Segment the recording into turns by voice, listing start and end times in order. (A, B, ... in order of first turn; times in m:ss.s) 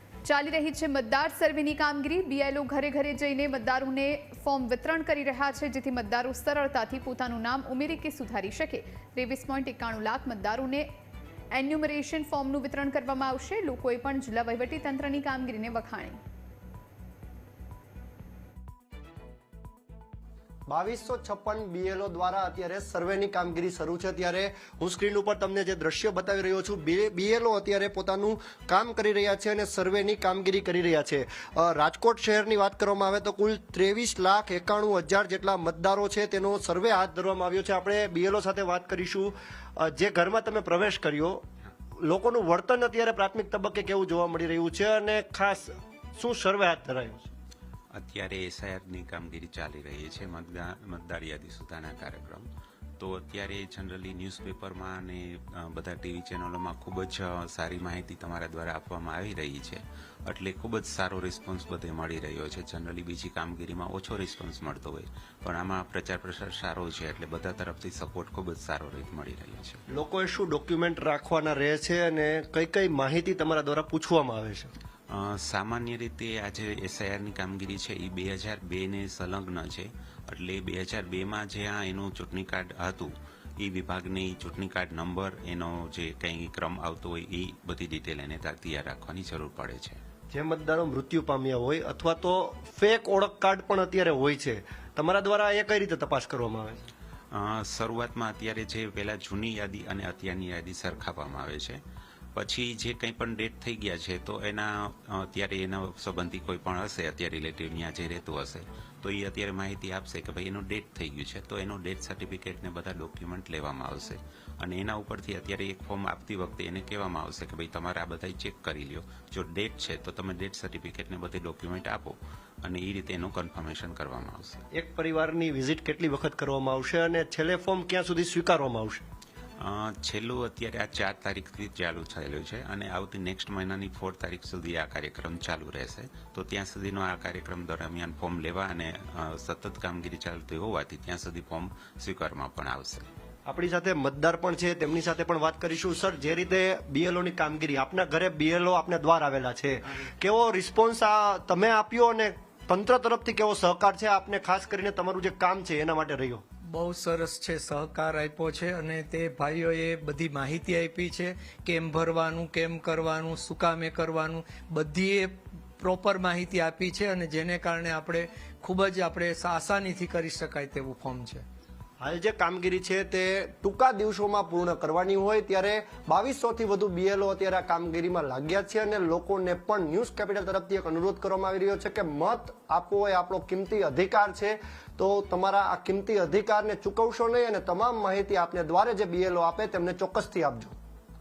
0:00.2-0:10.9 A
0:11.5-0:16.2 A
0:20.7-0:41.4 B
0:42.0-0:47.3 B
0:47.9-0:52.5 C
0:53.0-1:09.8 C
1:09.9-1:14.7 B
1:15.1-1:30.0 C
1:30.3-1:36.8 B
1:37.3-1:41.8 C
1:42.4-2:04.6 C
2:04.7-2:09.0 B
2:09.6-2:23.1 C
2:23.5-2:36.4 B
2:36.7-2:51.4 D
2:52.0-3:10.7 B